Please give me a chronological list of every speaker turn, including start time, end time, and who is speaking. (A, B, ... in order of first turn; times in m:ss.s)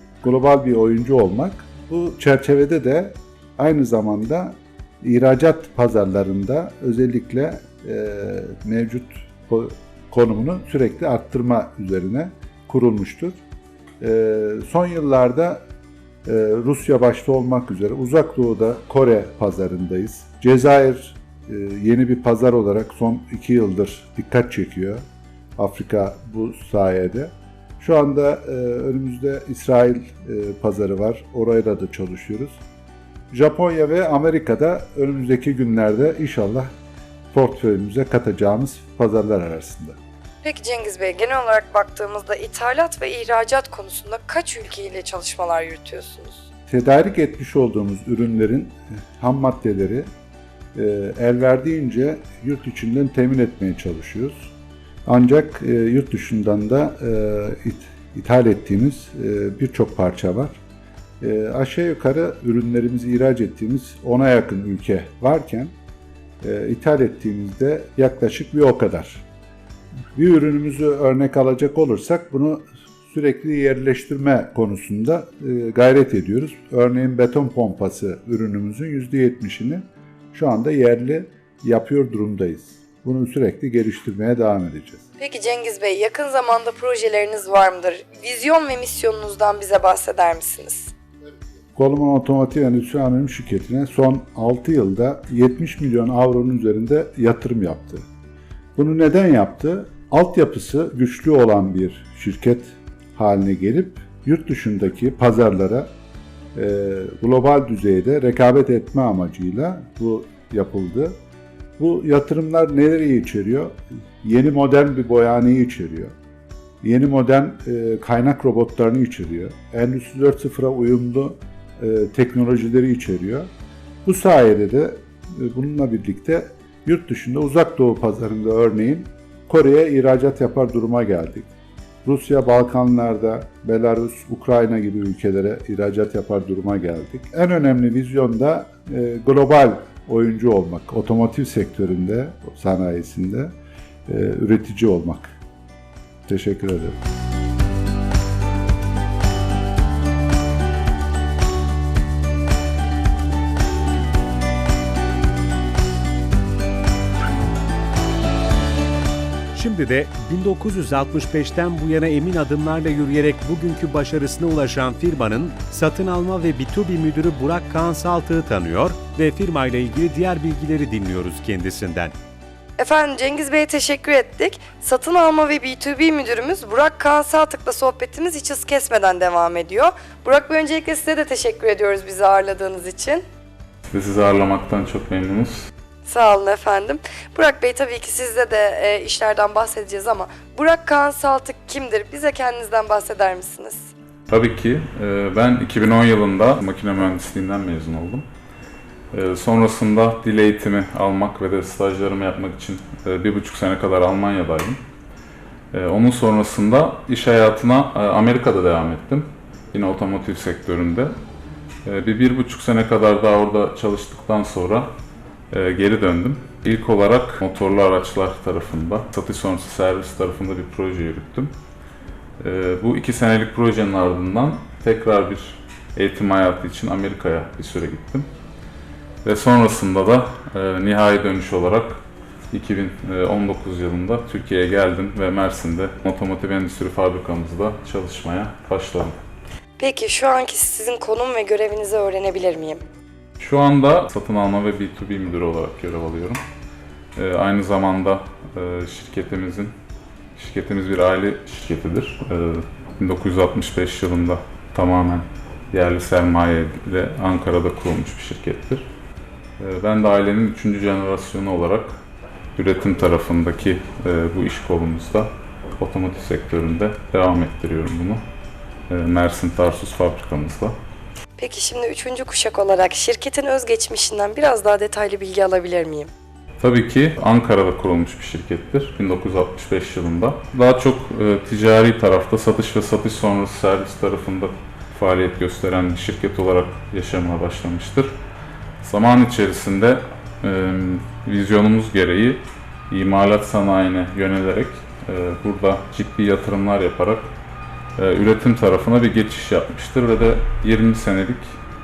0:00.2-0:13.4 A
0:14.0-0:15.6 A
0:16.2-0:25.0 A
0:25.6-0:32.6 A
0:33.3-0:36.7 A
0:37.3-0:40.0 A
0:40.4-0:46.4 B
0:46.7-0:50.0 A
0:50.7-0:54.5 A
0:55.0-1:00.6 A
1:01.2-1:05.7 A
1:06.4-1:09.2 A
1:10.1-1:25.0 A
1:25.2-1:30.9 B
1:31.8-1:38.0 A
1:38.8-1:45.9 A
1:46.5-1:51.2 A
1:51.8-1:56.1 A
1:56.8-2:03.5 A
2:04.0-2:11.5 A
2:12.0-2:23.5 A
2:24.1-2:25.4 A
2:26.3-2:27.0 A
2:39.5-2:52.1 C
2:52.8-3:03.2 B
3:03.9-3:05.7 D
3:06.0-3:13.9 B
3:14.3-3:18.2 D
3:19.1-3:24.8 D
3:25.7-3:31.1 D
3:31.8-3:34.9 D
3:35.5-3:41.5 D
3:42.4-3:48.3 D
3:49.2-3:52.0 D
3:52.5-3:59.1 D
3:59.8-4:02.8 B
4:03.4-4:06.4 D
4:07.2-4:09.7 D
4:10.4-4:18.9 D
4:19.6-4:22.0 D
4:22.6-4:28.2 D
4:28.9-4:30.8 D
4:31.4-4:36.1 B
4:36.6-4:48.1 D
4:48.8-4:57.3 D
4:58.0-5:01.5 D